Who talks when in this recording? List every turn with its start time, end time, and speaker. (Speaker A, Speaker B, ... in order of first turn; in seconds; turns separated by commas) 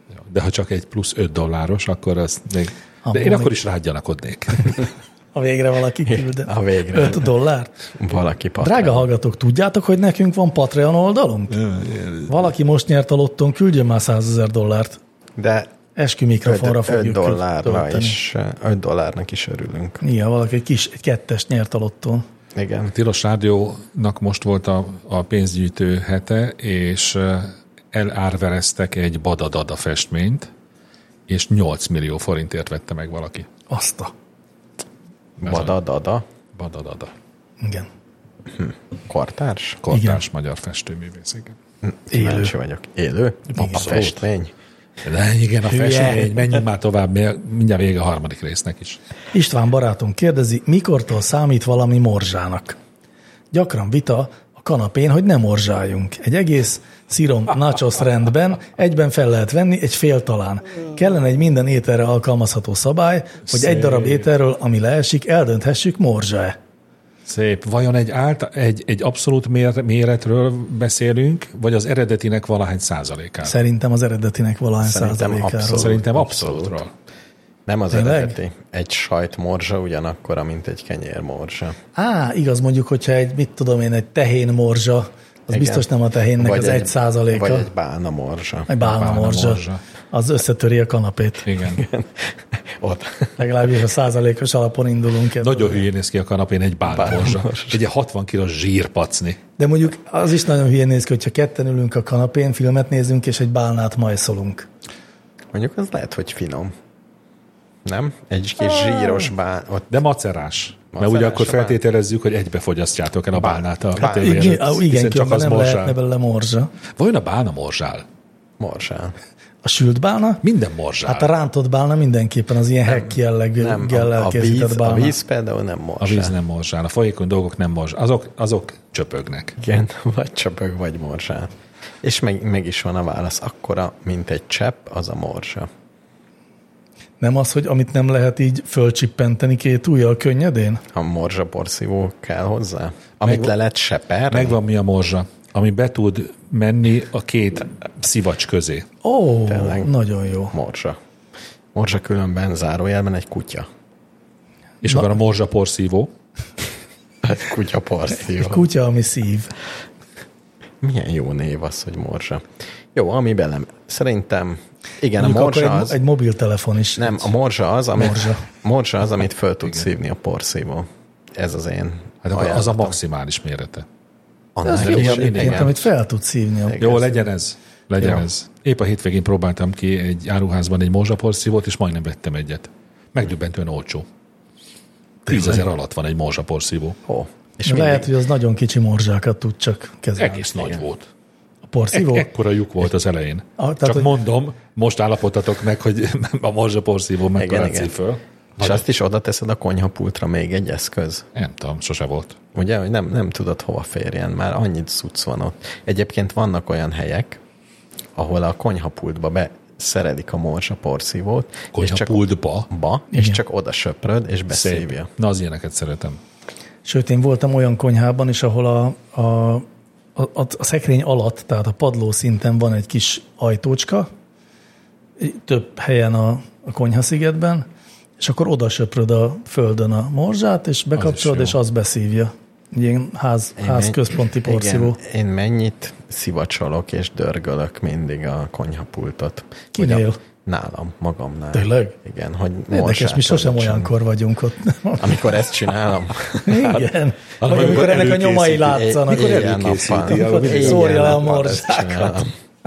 Speaker A: 0.2-4.9, Speaker B: 3.0-3.5, Speaker B: 5.3-7.7, Speaker C: 6.1-7.3, Speaker C: 8.0-9.1, Speaker B: 8.6-11.6, Speaker A: 11.5-12.4, Speaker B: 12.2-15.0, Speaker C: 15.4-15.7, Speaker B: 15.9-18.2, Speaker C: 16.4-20.0, Speaker B: 20.0-22.2, Speaker C: 22.5-22.9, Speaker A: 22.9-30.5, Speaker A: 31.3-33.5, Speaker B: 33.7-34.1, Speaker A: 35.4-35.7, Speaker C: 35.4-36.2, Speaker A: 36.5-37.1, Speaker B: 37.6-37.9, Speaker C: 38.5-39.8, Speaker A: 39.8-41.5, Speaker B: 39.9-40.2, Speaker C: 41.8-44.5, Speaker B: 42.1-42.5, Speaker B: 43.5-43.9, Speaker A: 43.6-44.2, Speaker A: 45.0-49.0, Speaker C: 45.7-46.5, Speaker B: 49.3-52.8, Speaker B: 53.5-66.6, Speaker A: 63.5-64.3, Speaker A: 67.2-73.5, Speaker B: 73.4-75.9, Speaker C: 74.8-76.8, Speaker A: 75.7-76.9, Speaker C: 77.7-81.8, Speaker B: 77.9-78.4, Speaker B: 82.0-87.7, Speaker C: 85.5-88.7, Speaker B: 88.7-91.4, Speaker A: 88.8-89.8, Speaker A: 91.4-91.8, Speaker C: 91.7-93.4, Speaker B: 93.4-95.8, Speaker A: 95.4-99.4, Speaker C: 96.8-97.8, Speaker B: 99.6-104.7, Speaker C: 105.5-106.7, Speaker C: 107.8-110.0, Speaker A: 109.9-116.0, Speaker C: 110.9-111.8, Speaker C: 113.3-114.6, Speaker B: 114.0-116.7, Speaker A: 117.0-118.0, Speaker C: 118.6-119.1, Speaker B: 119.6-120.4, Speaker A: 120.4-121.3, Speaker B: 121.0-125.2, Speaker C: 122.8-126.3, Speaker A: 126.0-129.6, Speaker C: 129.6-135.7, Speaker B: 137.2-140.8, Speaker C: 140.9-144.6, Speaker A: 143.2-143.5, Speaker A: 144.3-148.9, Speaker B: 149.0-150.5, Speaker C: 149.5-149.9, Speaker C: 150.5-151.0, Speaker C: 151.7-153.7, Speaker A: 154.8-156.1, Speaker C: 157.2-158.7, Speaker B: 158.3-159.5, Speaker C: 160.8-166.0, Speaker B: 165.2-167.3, Speaker C: 166.9-172.9, Speaker B: 168.0-168.4, Speaker A: 172.2-173.8, Speaker C: 174.6-175.8, Speaker B: 174.6-177.2, Speaker A: 174.8-175.8, Speaker C: 176.7-177.0, Speaker A: 176.8-184.1, Speaker A: 185.3-187.0, Speaker C: 187.0-188.1, Speaker B: 187.6-190.5, Speaker A: 190.2-191.1, Speaker C: 190.5-190.8, Speaker B: 191.7-192.3, Speaker A: 191.9-198.8, Speaker B: 193.6-194.1, Speaker C: 197.3-197.9, Speaker C: 198.6-201.2, Speaker A: 201.3-202.4, Speaker C: 202.5-207.4, Speaker C: 208.2-215.1, Speaker A: 211.7-212.7, Speaker B: 213.1-213.4, Speaker A: 214.5-216.2, Speaker B: 216.8-224.1, Speaker B: 225.2-227.7, Speaker B: 228.2-235.0, Speaker A: 230.9-231.6, Speaker C: 233.6-243.9, Speaker B: 239.7-240.2, Speaker B: 241.5-241.9, Speaker B: 242.7-245.2, Speaker C: 245.0-246.7, Speaker B: 246.4-249.4, Speaker A: 247.4-251.3, Speaker C: 248.6-252.3, Speaker B: 249.9-252.2